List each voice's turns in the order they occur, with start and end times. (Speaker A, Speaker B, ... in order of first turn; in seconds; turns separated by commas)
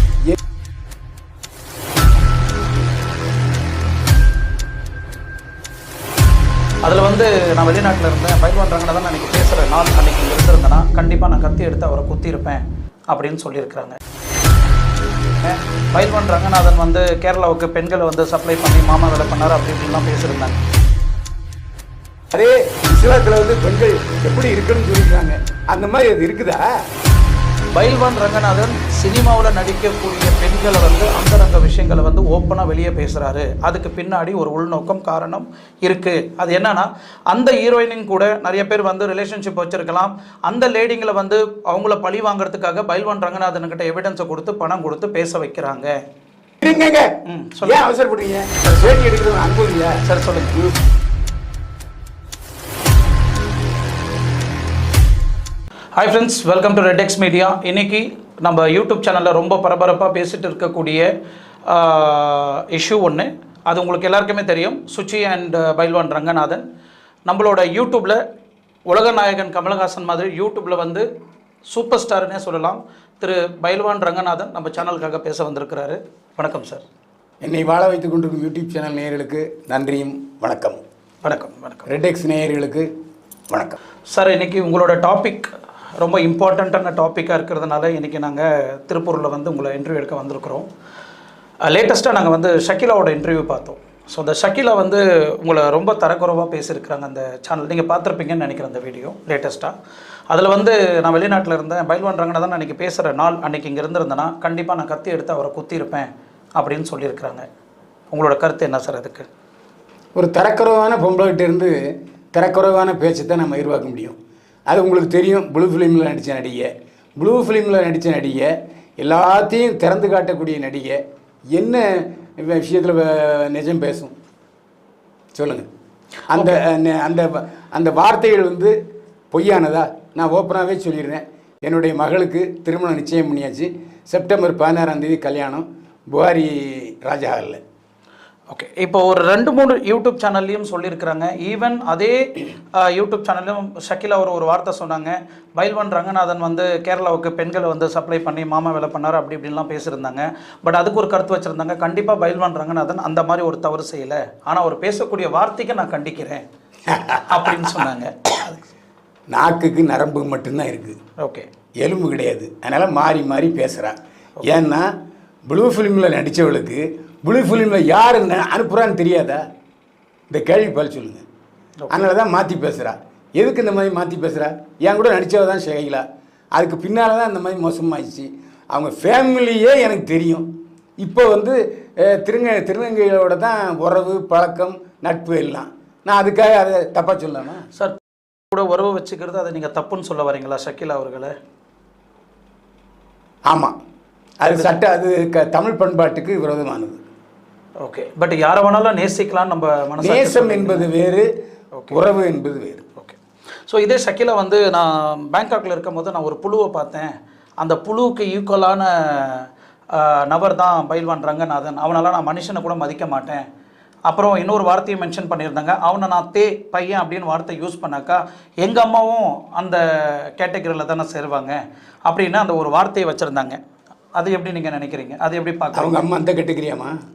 Speaker A: 6.8-14.0, Speaker A: 15.4-20.6, Speaker B: 22.3-26.6, Speaker A: 27.7-45.9, Speaker B: 46.6-50.0, Speaker A: 47.2-47.8, Speaker A: 48.6-49.0, Speaker A: 50.0-50.6, Speaker A: 56.0-61.1, Speaker A: 61.7-66.6, Speaker A: 67.3-68.2, Speaker A: 68.9-71.1, Speaker A: 71.7-76.8, Speaker B: 77.4-80.8, Speaker A: 81.2-81.9, Speaker B: 81.9-82.9, Speaker B: 83.5-83.8, Speaker A: 84.1-90.7, Speaker A: 91.7-99.8, Speaker A: 100.3-107.5, Speaker A: 108.1-109.3, Speaker B: 110.2-111.8, Speaker B: 112.3-114.2, Speaker B: 114.7-121.0, Speaker B: 121.5-121.9, Speaker B: 122.4-124.1, Speaker B: 125.3-125.7, Speaker B: 126.3-128.8, Speaker B: 129.3-137.6, Speaker A: 138.5-156.4, Speaker B: 156.9-157.8, Speaker A: 157.3-158.6, Speaker B: 159.3-161.0, Speaker A: 161.2-161.5, Speaker B: 161.8-164.9, Speaker B: 165.5-169.4, Speaker B: 170.3-171.2, Speaker B: 171.9-176.0, Speaker B: 176.6-180.5, Speaker B: 181.0-187.7, Speaker A: 187.8-191.3, Speaker B: 194.4-197.0, Speaker A: 194.4-194.8, Speaker A: 197.8-200.9, Speaker B: 200.0-201.3, Speaker B: 201.9-202.9, Speaker A: 203.0-213.4, Speaker A: 214.1-221.6, Speaker A: 222.1-223.6, Speaker A: 224.2-226.1, Speaker B: 225.7-227.0